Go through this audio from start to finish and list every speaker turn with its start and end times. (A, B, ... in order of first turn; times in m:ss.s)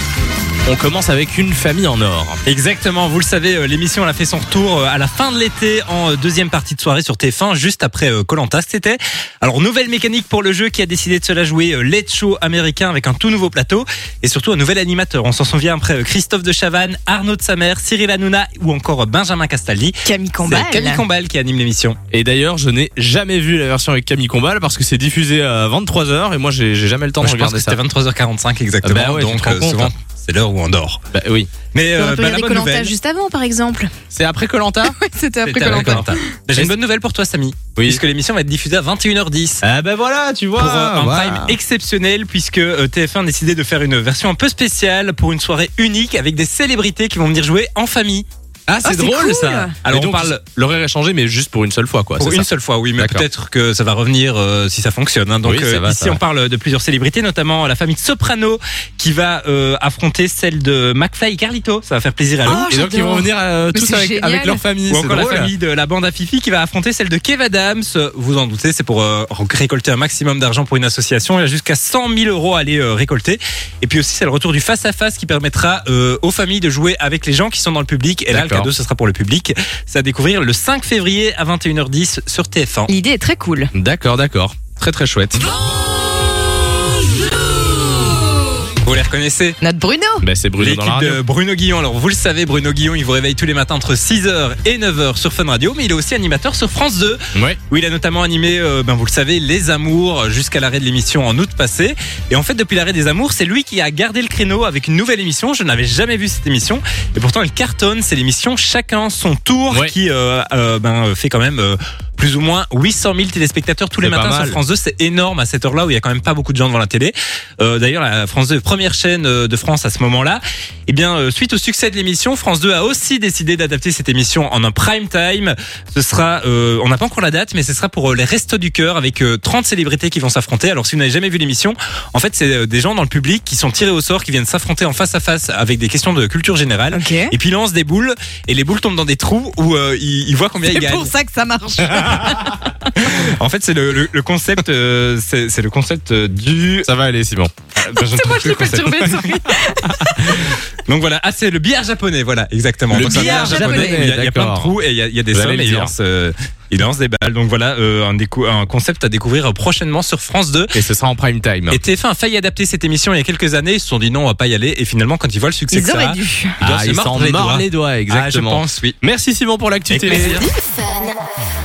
0:00.7-0:02.4 A
0:02.4-0:22.0 B
0:20.0-0:21.0 C
0:22.1-0:27.8 A
0:27.2-0:31.0 B
0:28.8-0:29.9 A
0:31.1-0:31.5 A
0:31.7-0:32.9 B
0:32.0-0:33.9 C
0:34.1-0:35.0 A
0:34.8-0:36.2 C
0:35.4-0:39.6 B
0:35.6-0:36.8 A
0:37.8-0:38.0 A
0:39.6-0:41.6 A
0:40.6-0:48.3 B
0:48.7-0:49.2 A
0:48.8-0:49.8 C
0:48.8-0:50.4 B
0:49.9-0:53.3 A
0:52.2-1:02.7 B
0:55.4-0:56.2 A
1:02.4-1:04.6 C
1:02.5-1:05.5 A
1:04.9-1:22.9 B
1:18.3-1:18.7 A
1:22.9-1:23.7 C
1:23.7-1:25.5 A
1:28.8-1:29.6 B
1:29.6-1:30.2 C
1:30.2-1:31.2 A
1:30.6-2:21.1 B
1:54.0-1:54.6 A
2:16.9-2:17.3 C
2:20.6-2:23.2 C
2:23.0-2:26.9 B
2:26.8-2:27.5 A
2:27.8-2:29.3 B
2:28.0-2:30.6 C
2:30.4-2:40.7 B
2:32.9-2:34.8 A
2:33.0-2:34.1 C
2:35.3-2:35.9 A
2:40.7-2:41.8 A
2:41.7-2:49.0 B
2:45.7-2:46.6 C
2:46.6-2:50.5 A
2:49.9-2:50.5 B